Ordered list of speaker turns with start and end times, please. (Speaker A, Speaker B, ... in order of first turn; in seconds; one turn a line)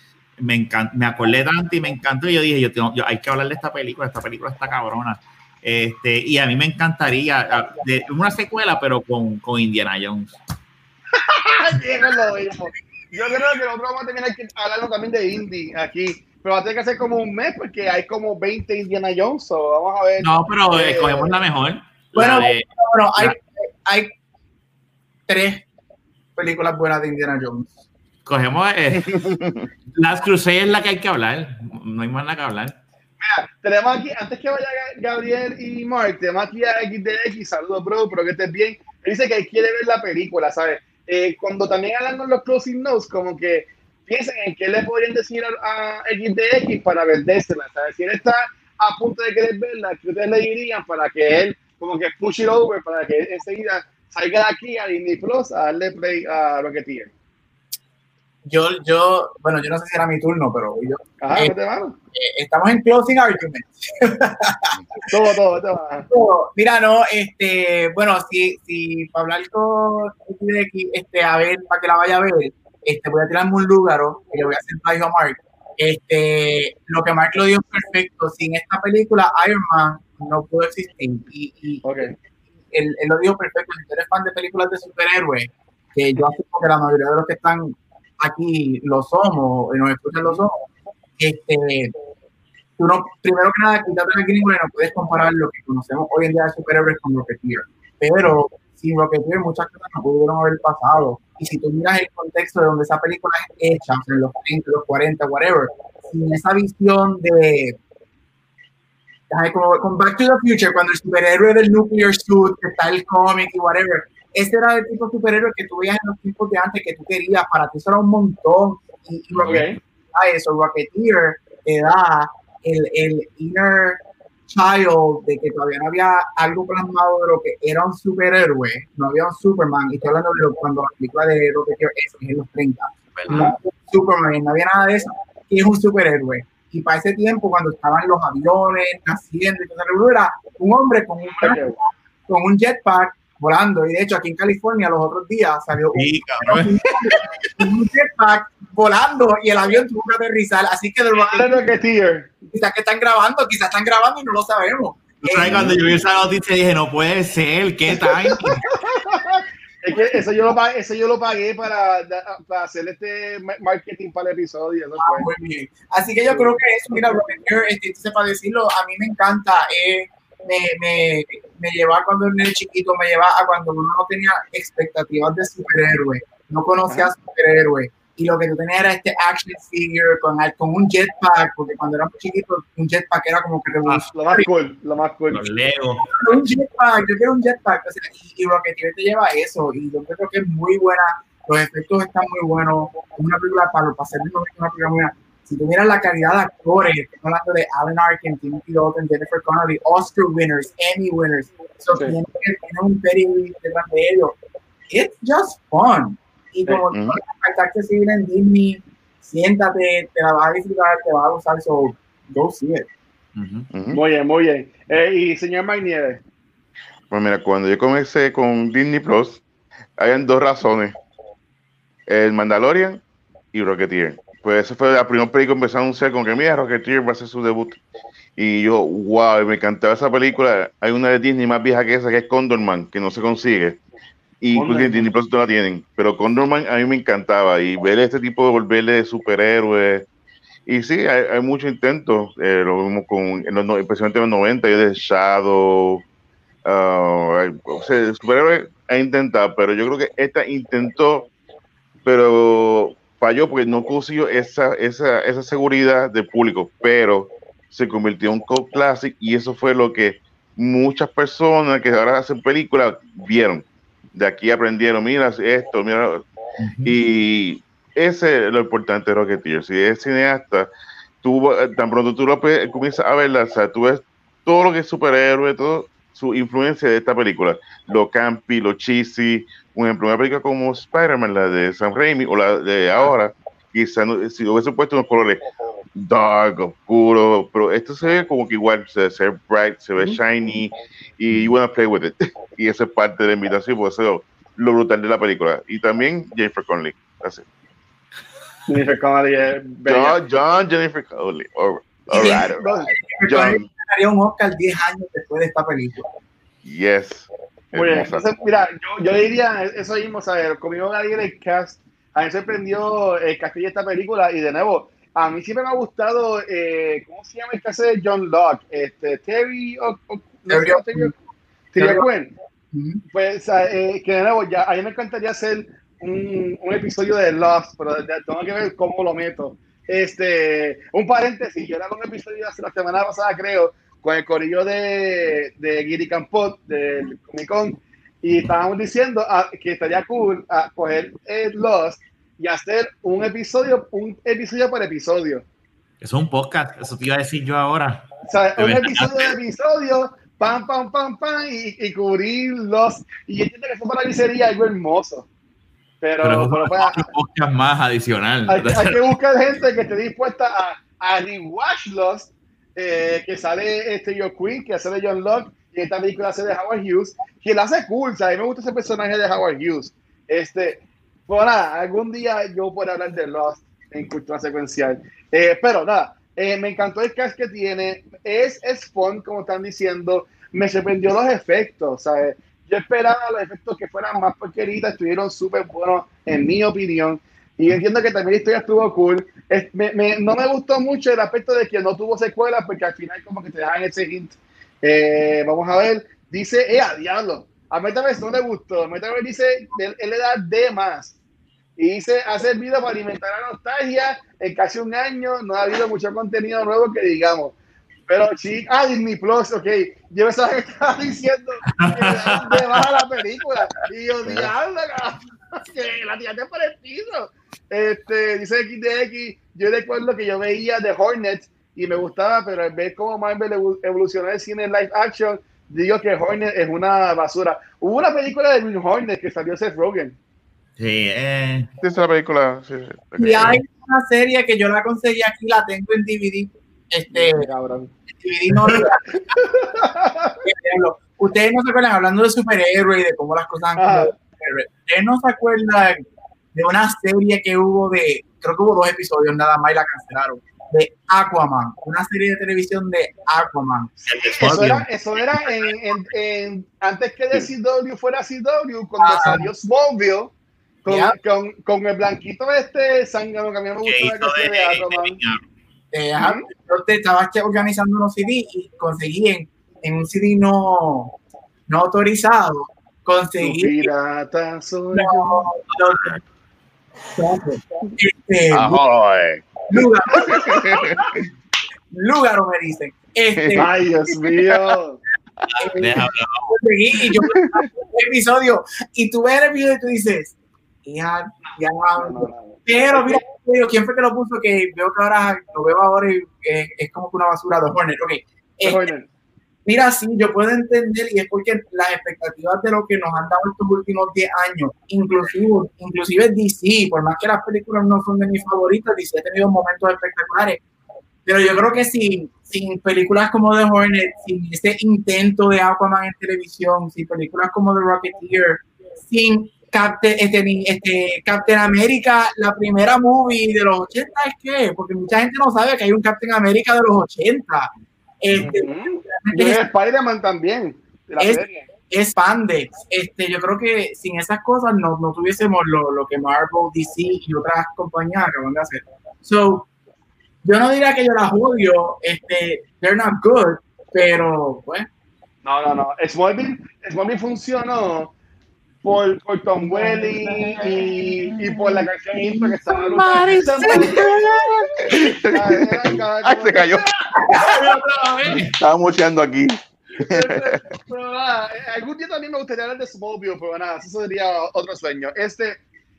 Speaker A: 0.4-10.4
Speaker B: 11.1-21.4
Speaker A: 20.2-22.6
Speaker C: 22.1-24.1
Speaker C: 25.3-25.6
Speaker C: 26.4-27.8
Speaker A: 28.2-29.3
Speaker D: 29.0-29.7
Speaker A: 29.9-32.8
Speaker B: 33.2-57.1
Speaker C: 58.4-61.5
Speaker B: 61.2-62.0
Speaker C: 62.1-64.7
Speaker B: 65.1-66.1
Speaker C: 66.1-82.0
Speaker B: 81.8-82.1
Speaker C: 82.7-90.6
Speaker C: 91.2-91.9
Speaker C: 92.8-107.8
Speaker C: 109.3-151.6
Speaker A: 119.3-119.6
Speaker B: 119.4-119.8
Speaker B: 133.3-133.6
Speaker B: 141.2-141.8
Speaker A: 145.9-147.2
Speaker B: 151.1-152.3
Speaker C: 152.5-156.0
Speaker A: 155.2-158.7
Speaker B: 158.0-165.3
Speaker C: 165.0-184.5
Speaker B: 166.3-167.0
Speaker B: 184.1-185.4
Speaker A: 185.3-186.3
Speaker C: 186.1-204.3
Speaker C: 204.9-212.9
Speaker D: 206.9-207.2
Speaker A: 213.3-213.7
Speaker D: 213.7-214.0
Speaker B: 213.9-216.2
Speaker D: 217.1-219.4
Speaker D: 220.0-220.9
Speaker D: 222.1-223.0
Speaker D: 223.5-227.8
Speaker D: 228.4-233.8
Speaker D: 234.4-240.1
Speaker B: 234.5-235.1
Speaker D: 240.7-246.0
Speaker D: 246.7-251.3
Speaker D: 252.0-266.2
Speaker A: 266.6-267.0
Speaker D: 266.8-270.7
Speaker D: 271.2-285.4
Speaker D: 286.0-297.4
Speaker B: 298.7-300.1
Speaker D: 299.9-302.7
Speaker C: 302.1-306.1
Speaker B: 302.2-302.9
Speaker D: 303.2-303.6
Speaker D: 306.6-308.3
Speaker B: 307.7-321.1
Speaker C: 320.5-321.1
Speaker B: 321.7-322.3
Speaker C: 321.8-322.1
Speaker C: 322.7-323.0
Speaker B: 323.1-345.4
Speaker A: 346.0-349.3
Speaker B: 348.3-355.3
Speaker B: 356.0-357.1
Speaker A: 356.2-359.0
Speaker B: 358.5-401.1
Speaker B: 401.8-407.6
Speaker B: 408.1-430.2
Speaker A: 411.7-412.8
Speaker A: 430.8-431.7
Speaker D: 431.8-433.6
Speaker C: 433.2-437.5
Speaker B: 437.1-437.9
Speaker C: 438.2-439.0
Speaker B: 439.2-440.4
Speaker C: 440.4-446.0
Speaker B: 443.8-444.1
Speaker C: 446.5-453.9
Speaker A: 454.1-454.9
Speaker B: 454.1-460.3
Speaker A: 455.4-455.7
Speaker C: 459.0-459.5
Speaker B: 460.8-465.2
Speaker C: 460.9-461.1
Speaker A: 463.8-465.4
Speaker C: 465.9-471.1
Speaker B: 466.2-466.4
Speaker C: 471.7-473.9
Speaker B: 473.4-475.5
Speaker C: 474.9-476.1
Speaker C: 477.1-478.8
Speaker D: 478.5-479.5
Speaker C: 479.7-480.7
Speaker B: 480.2-480.6
Speaker D: 480.3-481.1
Speaker C: 481.9-483.7
Speaker D: 483.4-483.7
Speaker B: 483.5-485.0
Speaker A: 485.5-486.6
Speaker C: 485.6-490.3
Speaker D: 487.3-487.6
Speaker C: 490.8-498.9
Speaker B: 491.4-493.2
Speaker B: 498.6-499.1
Speaker C: 499.6-510.6
Speaker C: 511.2-529.6
Speaker B: 528.4-531.7
Speaker C: 531.2-539.7
Speaker C: 540.4-544.9
Speaker B: 545.4-548.1
Speaker B: 548.8-554.2
Speaker C: 549.6-551.9
Speaker A: 552.4-554.4
Speaker C: 553.6-554.2
Speaker D: 554.0-556.9
Speaker B: 555.2-556.9
Speaker C: 557.1-557.8
Speaker A: 557.3-558.5
Speaker D: 558.3-560.6
Speaker B: 560.0-565.6